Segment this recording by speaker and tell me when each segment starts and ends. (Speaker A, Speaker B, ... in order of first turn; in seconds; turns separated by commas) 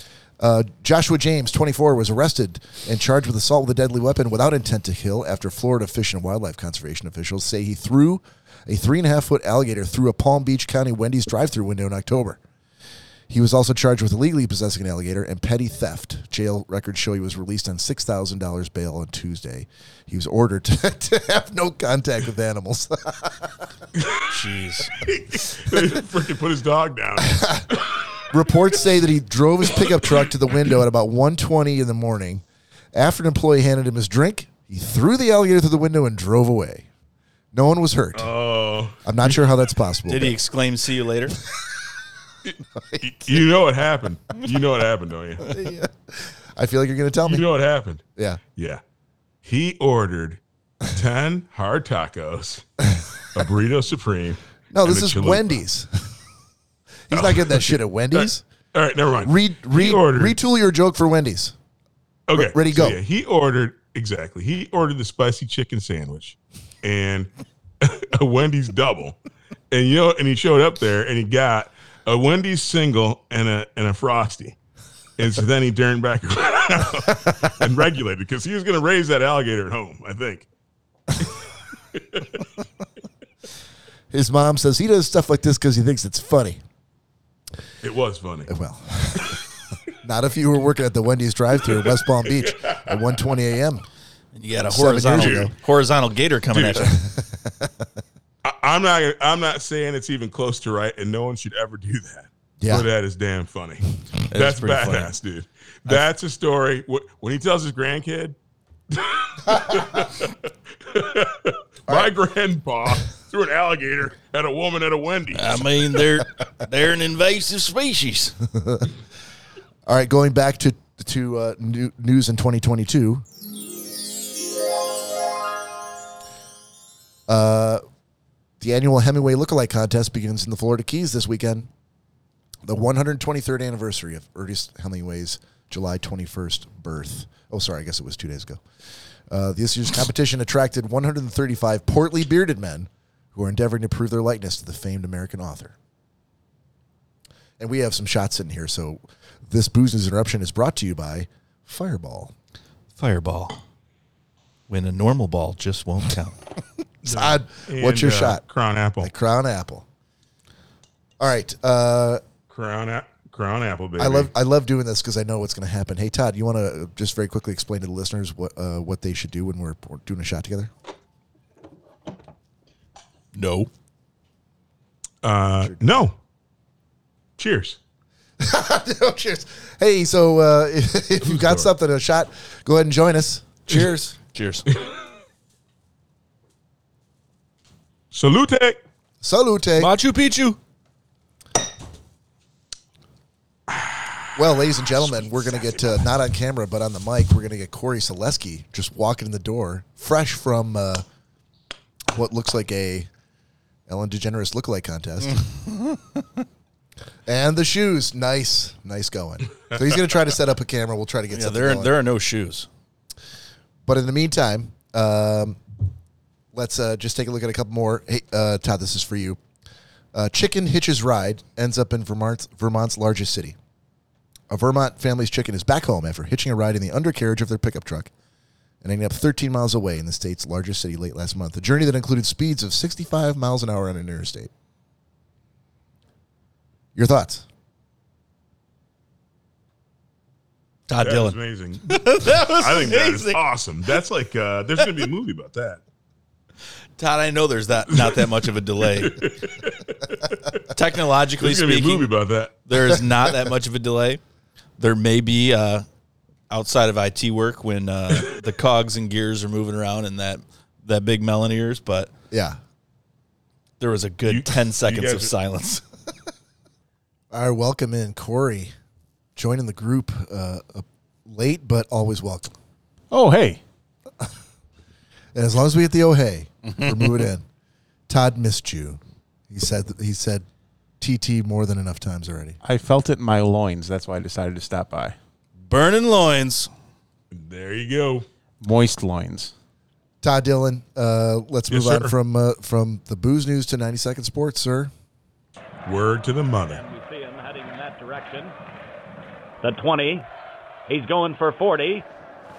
Speaker A: 0.4-12.4, Speaker A: 13.3-23.7, Speaker B: 24.0-24.3, Speaker C: 24.3-25.0, Speaker B: 24.9-28.0, Speaker A: 27.2-27.7, Speaker A: 28.3-36.9, Speaker B: 29.9-30.1, Speaker A: 37.5-38.3, Speaker B: 38.1-39.0, Speaker A: 39.0-40.4, Speaker C: 40.1-41.4, Speaker B: 42.5-45.5, Speaker A: 42.8-43.4, Speaker A: 45.5-47.5, Speaker B: 47.2-48.0, Speaker B: 48.6-48.8, Speaker B: 49.4-55.6, Speaker A: 54.7-56.0, Speaker A: 57.1-58.4, Speaker B: 57.1-60.4, Speaker A: 59.2-61.5, Speaker B: 62.3-67.3, Speaker A: 62.3-63.0, Speaker B: 67.8-69.2, Speaker B: 69.7-74.6, Speaker B: 75.2-80.5, Speaker B: 81.9-82.4, Speaker A: 84.1-86.6, Speaker B: 87.8-88.5, Speaker A: 88.5-89.4, Speaker A: 90.0-93.9, Speaker B: 91.8-93.0, Speaker C: 94.3-97.0, Speaker A: 94.7-95.5, Speaker B: 95.2-95.5, Speaker B: 96.5-96.9, Speaker A: 96.8-97.9, Speaker B: 98.4-108.4, Speaker A: 102.6-102.9, Speaker C: 104.3-105.1, Speaker B: 108.9-116.0, Speaker C: 115.3-118.4, Speaker A: 118.5-118.9, Speaker A: 119.9-123.2, Speaker A: 127.3-127.8, Speaker A: 128.6-131.7, Speaker A: 132.7-138.6, Speaker A: 139.3-145.8, Speaker A: 147.6-152.3, Speaker C: 153.0-153.6, Speaker C: 154.7-156.4, Speaker A: 157.0-158.4, Speaker B: 157.1-159.1, Speaker A: 159.0-159.8, Speaker A: 161.2-162.2, Speaker B: 162.5-164.3, Speaker A: 164.0-170.7, Speaker C: 173.3-173.7, Speaker B: 175.2-176.2, Speaker A: 175.6-176.1, Speaker B: 177.4-177.8, Speaker A: 178.4-184.2, Speaker B: 181.2-181.7, Speaker C: 183.7-184.7, Speaker B: 188.1-188.8, Speaker A: 189.2-189.9, Speaker C: 189.8-190.6, Speaker A: 194.4-201.1, Speaker B: 195.2-195.6, Speaker A: 202.1-203.1, Speaker A: 203.9-205.5, Speaker C: 205.2-206.2, Speaker A: 207.3-212.0, Speaker C: 211.3-212.7, Speaker A: 213.9-215.6, Speaker A: 216.5-219.4, Speaker A: 220.1-223.6, Speaker A: 224.5-228.1, Speaker A: 228.8-234.5, Speaker A: 236.9-237.4, Speaker C: 240.9-243.4, Speaker B: 241.0-245.8, Speaker C: 247.0-249.3, Speaker B: 247.9-250.6, Speaker C: 250.7-252.1, Speaker B: 251.4-252.6, Speaker C: 252.7-254.2, Speaker C: 254.8-255.9, Speaker C: 256.5-262.1, Speaker A: 262.3-262.6, Speaker C: 263.8-265.8, Speaker B: 264.3-265.3, Speaker A: 267.3-268.7, Speaker A: 269.4-272.5, Speaker D: 273.1-273.6, Speaker A: 275.4-277.4, Speaker A: 278.1-280.5, Speaker A: 281.0-282.6, Speaker D: 282.6-285.2, Speaker C: 285.7-286.7, Speaker B: 287.3-288.3, Speaker D: 288.6-289.5, Speaker A: 290.2-294.9, Speaker B: 291.7-292.1, Speaker B: 295.9-296.8, Speaker E: 296.7-298.6, Speaker E: 299.6-300.3, Speaker E: 300.9-302.1